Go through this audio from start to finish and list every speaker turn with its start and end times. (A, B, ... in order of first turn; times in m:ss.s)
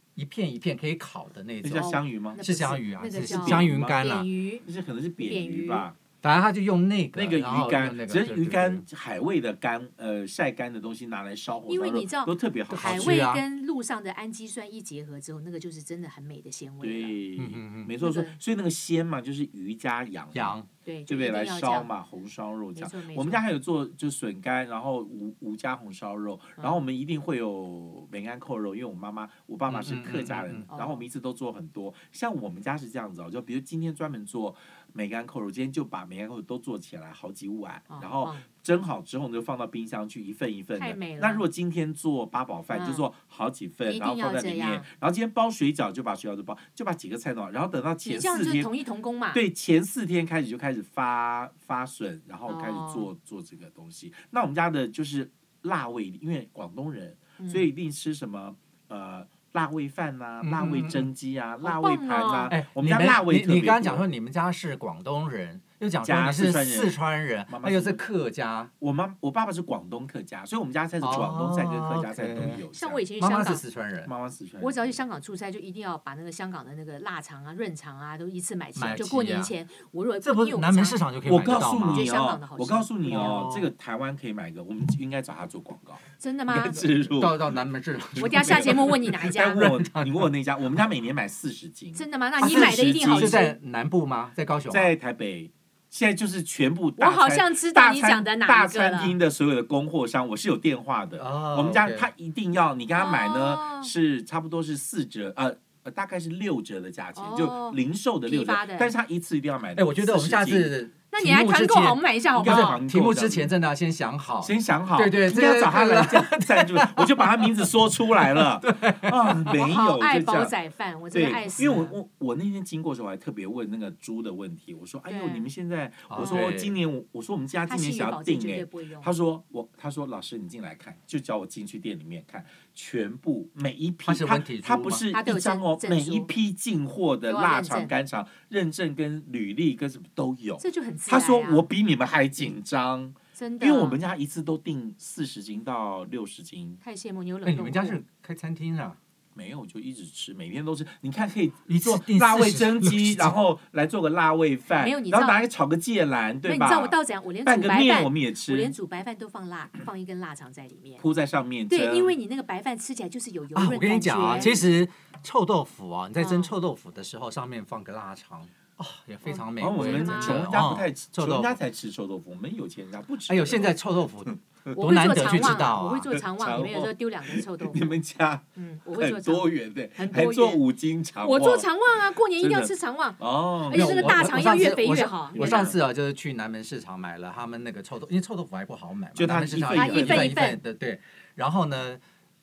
0:00.2-0:04.3 A
0:01.6-0:02.4 B
0:01.8-0:04.7 C
0:03.1-0:04.0 B
0:04.6-0:06.0 B
0:05.2-0:05.8 C
0:06.2-0:08.8 A
0:07.1-0:13.2 B
0:11.7-0:17.2 C
0:12.7-0:13.4 A
0:16.8-0:48.7 B
0:17.4-0:17.9 A
0:18.0-0:18.4 C
0:20.3-0:20.7 A
0:20.8-0:21.9 C
0:22.8-0:23.4 C
0:29.7-0:30.7 A
0:30.7-0:31.0 C
0:37.9-0:38.4 C
0:40.8-0:41.4 C
0:42.7-0:43.0 C
0:43.8-0:44.9 C
0:48.0-0:49.4 C
0:49.3-1:04.0 B
0:52.5-0:53.1 C
0:57.4-0:57.7 C
1:00.4-1:01.1 A
1:01.6-1:02.5 C
1:02.5-1:08.7 A
1:06.0-1:08.0 B
1:08.8-1:13.0 B
1:11.0-1:12.6 A
1:12.7-1:13.6 C
1:13.2-1:14.1 A
1:14.0-1:15.0 B
1:14.6-1:23.5 C
1:18.8-1:19.5 A
1:20.2-1:22.1 A
1:21.2-1:27.5 B
1:23.1-1:23.7 A
1:26.2-1:26.8 C
1:27.2-1:30.3 A
1:28.1-1:33.4 B
1:28.2-1:29.6 C
1:31.9-1:33.5 C
1:32.4-1:34.9 A
1:34.7-1:50.7 B
1:37.0-1:39.2 C
1:41.2-1:42.1 A
1:42.9-1:43.9 C
1:47.2-1:48.9 C
1:49.8-1:59.5 A
1:51.1-1:52.8 C
1:52.3-1:53.5 B
1:54.4-2:00.5 B
1:59.6-2:02.0 C
2:01.1-2:26.8 B
2:05.1-2:05.4 C
2:06.1-2:06.7 A
2:06.2-2:06.5 C
2:07.7-2:09.1 C
2:14.0-2:15.0 A
2:15.1-2:16.3 C
2:17.3-2:17.9 C
2:20.6-2:21.6 C
2:23.4-2:24.0 C
2:26.8-2:28.0 C
2:27.4-2:29.0 A
2:29.3-2:38.7 B
2:31.7-2:33.4 A
2:34.8-2:35.4 C
2:36.4-2:41.0 C
2:41.0-2:42.1 B
2:41.7-2:44.5 C
2:43.5-2:51.6 A
2:44.2-2:44.6 B
2:46.2-2:46.5 C
2:49.2-2:50.5 C
2:49.6-2:58.4 B
2:53.3-2:56.1 A
2:54.7-2:57.9 C
2:58.6-3:00.6 C
2:59.0-3:01.7 B
3:01.2-3:05.7 C
3:02.4-3:04.3 B
3:03.7-3:12.0 A
3:05.3-3:05.8 B
3:09.2-3:10.4 B
3:09.7-3:10.6 C